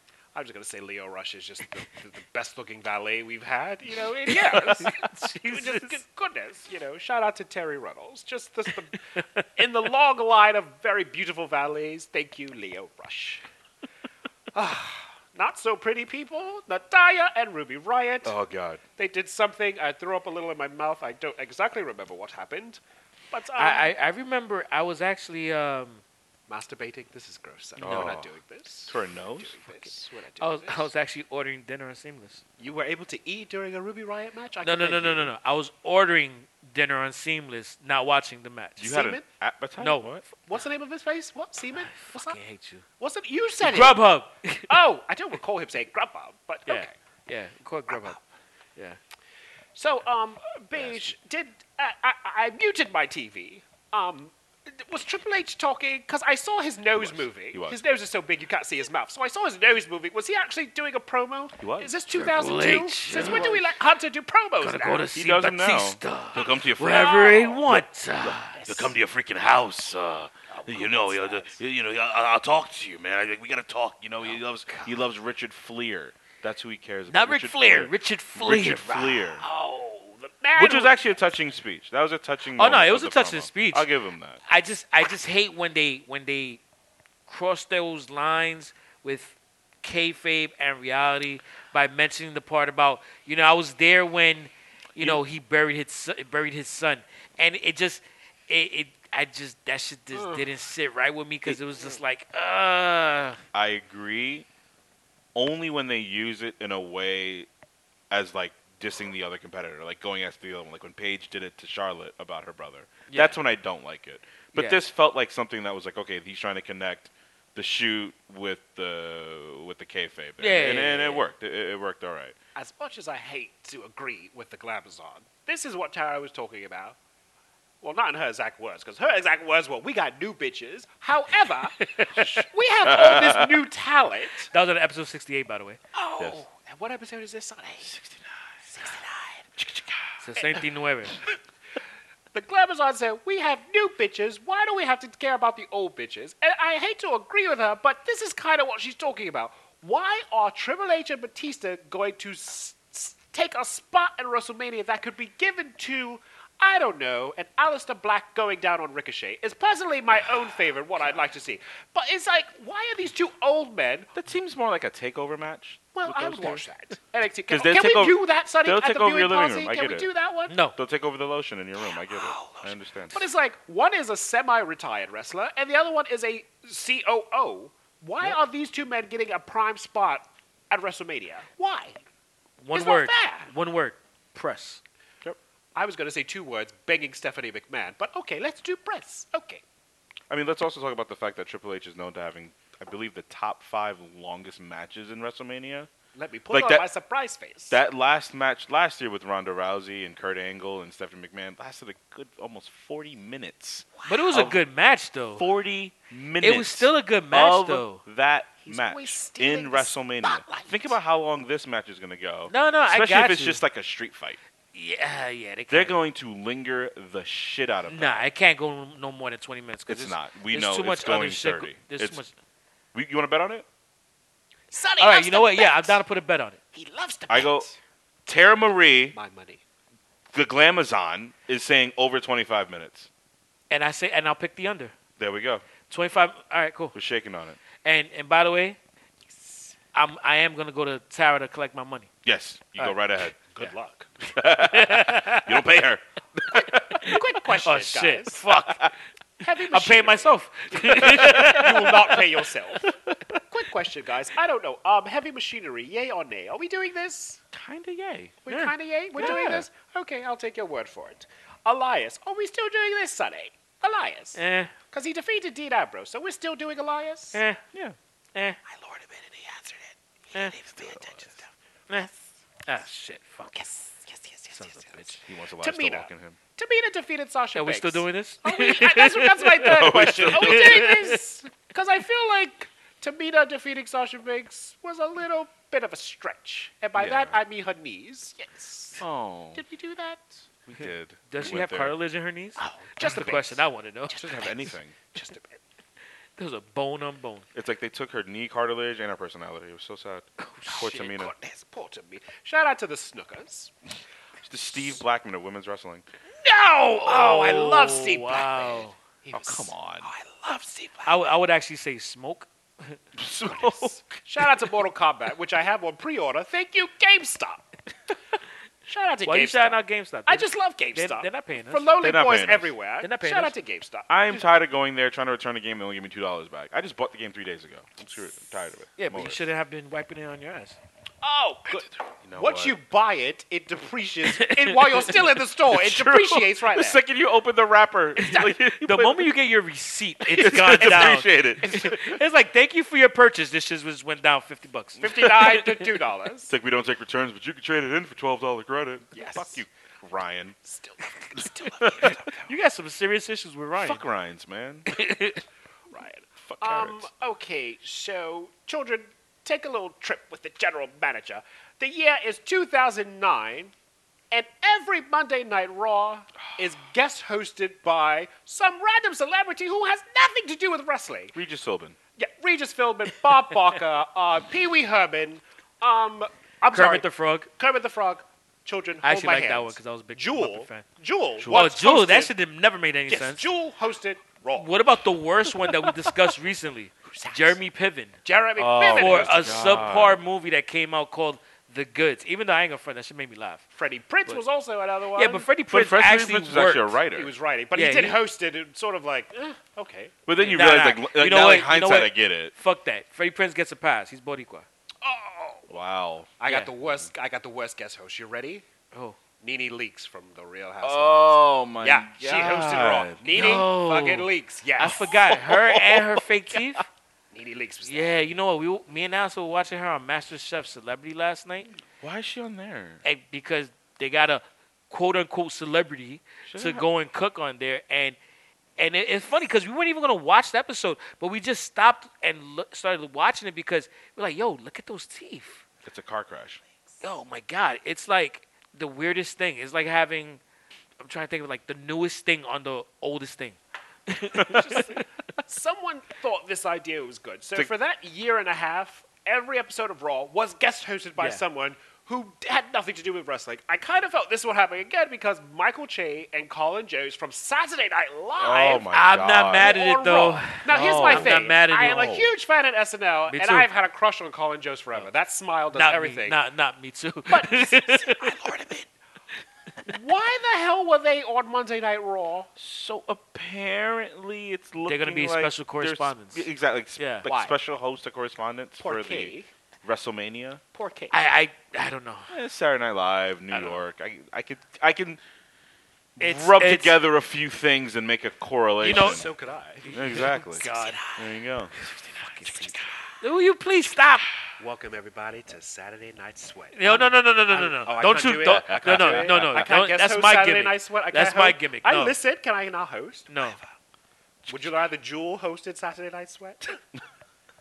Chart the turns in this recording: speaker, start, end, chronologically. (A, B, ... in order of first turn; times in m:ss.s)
0:00.3-0:09.0 A
0:04.3-0:05.9 B
0:09.2-0:09.4 B
0:09.6-0:13.4 A
0:14.5-0:18.3 A
0:18.2-0:18.8 C
0:19.0-0:22.8 A
0:23.3-0:23.9 A
0:23.6-0:26.0 B
0:26.5-0:30.9 A
0:27.8-0:28.3 C
0:28.9-0:29.6 C
0:30.4-0:32.4 B
0:32.6-0:35.3 A
0:34.6-0:38.9 B
0:38.8-0:40.2 C
0:38.8-0:39.2 A
0:39.8-0:40.2 B
0:40.4-0:42.4 A
0:41.9-0:42.8 B
0:43.0-0:44.0 A
0:43.6-0:44.8 B
0:44.7-0:46.9 A
0:46.7-0:48.2 B
0:47.9-0:48.2 A
0:49.8-1:05.0 A
0:50.7-0:51.1 C
0:57.0-0:57.8 C
1:01.6-1:02.4 C
1:02.2-1:03.7 B
1:03.1-1:03.6 C
1:04.6-1:08.6 B
1:05.1-1:19.4 C
1:06.3-1:07.7 A
1:08.5-1:08.9 A
1:10.5-1:11.6 A
1:17.1-1:19.3 B
1:19.4-1:21.1 A
1:20.6-1:24.4 C
1:22.6-1:23.8 B
1:24.4-1:26.6 B
1:27.3-1:43.4 B
1:35.0-1:35.2 C
1:40.2-1:40.4 A
1:43.5-1:44.5 C
1:45.3-1:47.5 C
1:48.1-2:02.4 C
1:53.1-1:53.4 B
1:54.5-1:54.8 B
2:00.4-2:01.2 B
2:02.5-2:07.0 A
2:07.8-2:14.5 A
2:11.8-2:12.2 B
2:12.8-2:13.6 C
2:14.5-2:15.8 B
2:15.9-2:17.9 A
2:16.2-2:16.4 C
2:17.8-2:18.3 C
2:18.7-2:19.5 A
2:19.6-2:20.0 C
2:20.2-2:21.2 B
2:22.3-2:44.1 A
2:44.1-2:46.6 C
2:45.9-2:50.6 A
2:47.5-2:50.1 C
2:50.5-2:50.8 B
2:50.7-2:53.2 C
2:51.8-3:02.0 A
3:02.6-3:04.8 B
3:02.7-3:03.5 A
3:05.7-3:09.6 A
3:10.3-3:15.9 C
3:16.2-3:17.8 A
3:16.5-3:16.8 C
3:17.7-3:24.6 C
3:24.0-3:24.2 A
3:24.1-3:25.4 B
3:25.4-3:34.4 C
3:26.4-3:28.0 B
3:28.6-3:30.9 A
3:32.5-3:33.6 B
3:34.7-3:35.9 B
3:35.7-3:38.3 C
3:37.9-3:42.3 B
3:39.9-3:42.2 C
3:42.9-3:43.6 C
3:44.7-3:46.0 A
3:45.0-3:46.6 B
3:46.7-3:47.8 A
3:47.3-3:47.7 C
3:48.3-3:49.2 C
3:49.1-3:49.6 A
3:50.3-3:53.1 C
3:53.7-3:54.9 B
3:55.2-3:55.6 C
3:55.9-3:56.9 B
3:56.9-3:57.6 C
3:57.8-3:58.8 B
3:59.3-3:59.7 A
3:59.9-4:02.1 B
4:02.2-4:03.4 C
4:03.4-4:04.1 A
4:04.2-4:07.1 C
4:04.6-4:05.6 B
4:06.9-4:08.9 B
4:07.0-4:08.4 A
4:09.4-4:12.9 A
4:09.7-4:12.2 B
4:11.0-4:11.8 C
4:12.9-4:13.4 C
4:13.5-4:17.4 A
4:17.5-4:18.4 C
4:18.4-4:24.4 A
4:19.2-4:19.6 C
4:24.3-4:24.7 B
4:24.9-4:27.4 A
4:27.3-4:27.6 B
4:28.6-4:31.5 A
4:30.7-4:31.3 C
4:31.9-4:33.7 B
4:33.5-4:50.4 A
4:34.5-4:35.2 B
4:35.2-4:36.4 C
4:37.5-4:41.2 B
4:39.6-4:40.9 C
4:46.9-4:47.4 C
4:49.0-4:49.6 C
4:50.7-4:51.9 C
4:51.3-4:54.4 B
4:52.6-4:55.6 A
4:54.1-4:55.0 C
4:56.4-4:57.4 B
4:57.5-5:01.3 C
5:00.4-5:00.9 B
5:00.7-5:03.7 A
5:04.4-5:06.0 C
5:06.4-5:11.3 A
5:06.9-5:09.0 B
5:09.3-5:10.1 C
5:11.0-5:13.0 B
5:13.1-5:14.5 C
5:13.5-5:17.7 A
5:18.8-5:24.4 A
5:19.2-5:21.9 B
5:22.0-5:22.7 C
5:23.0-5:23.5 B
5:24.1-5:29.5 C
5:29.0-5:30.8 B
5:31.2-5:37.0 A
5:32.1-5:32.8 C
5:34.2-5:35.1 B
5:35.7-5:39.3 C
5:38.2-5:45.8 B
5:40.2-5:42.2 C
5:45.0-5:46.5 A
5:45.1-5:45.7 C
5:46.5-5:50.6 C
5:49.1-5:49.6 A
5:50.6-5:52.5 A
5:51.4-5:52.2 C
5:52.4-5:54.0 B
5:53.8-5:54.9 C
5:54.9-5:55.4 B
5:55.9-6:03.7 A
5:56.4-5:57.1 C
6:04.3-6:11.3 A
6:11.3-6:12.0 C
6:12.2-6:22.3 A
6:16.7-6:17.5 B
6:19.0-6:20.8 B
6:21.4-6:21.7 C
6:21.5-6:23.5 B
6:23.1-6:24.9 A
6:24.5-6:28.2 B
6:27.1-6:27.6 A
6:28.2-6:29.5 A
6:28.6-6:30.2 C
6:28.8-6:33.6 B
6:33.7-6:35.5 A
6:35.1-6:37.0 B
6:35.7-6:37.3 C
6:37.1-6:40.2 A
6:37.7-6:38.2 B
6:40.2-6:42.5 C
6:40.4-6:44.7 B
6:45.0-6:45.7 A
6:45.7-6:46.3 C
6:46.4-6:48.6 A
6:46.4-6:46.7 B
6:48.9-6:49.2 B
6:49.4-6:55.1 A
6:50.8-6:53.6 C
6:53.3-6:56.8 B
6:54.8-6:56.8 C
6:57.3-6:58.2 A
6:57.8-7:01.7 B
7:02.0-7:03.0 C
7:03.0-7:08.2 B
7:06.4-7:06.8 C
7:08.8-7:15.6 B
7:15.8-7:16.6 C
7:17.0-7:20.4 B
7:21.0-7:25.0 B
7:24.4-7:24.8 C
7:24.5-7:38.9 A
7:38.4-7:39.7 C
7:38.9-7:42.1 B
7:39.6-7:46.4 A
7:40.7-7:42.3 C
7:43.3-7:43.7 B
7:45.7-7:48.3 B
7:47.3-7:48.9 A
7:49.8-7:52.5 A
7:52.6-8:00.6 C
7:54.8-7:56.4 B
7:57.0-7:57.3 B
7:57.2-7:57.6 A
7:58.8-7:59.5 A
8:00.7-8:01.1 A
8:01.1-8:02.3 B
8:02.3-8:05.2 C
8:03.5-8:03.8 B
8:06.2-8:09.3 C
8:06.2-8:07.0 B
8:08.8-8:09.9 A
8:08.8-8:09.3 B
8:09.8-8:11.0 B
8:09.9-8:11.7 C
8:10.6-8:11.3 A
8:11.8-8:12.7 B
8:12.3-8:13.1 A
8:12.4-8:12.9 C
8:13.2-8:14.3 B
8:14.6-8:23.7 A
8:16.7-8:22.1 B
8:18.4-8:19.7 C
8:23.3-8:23.6 B
8:24.5-8:26.8 A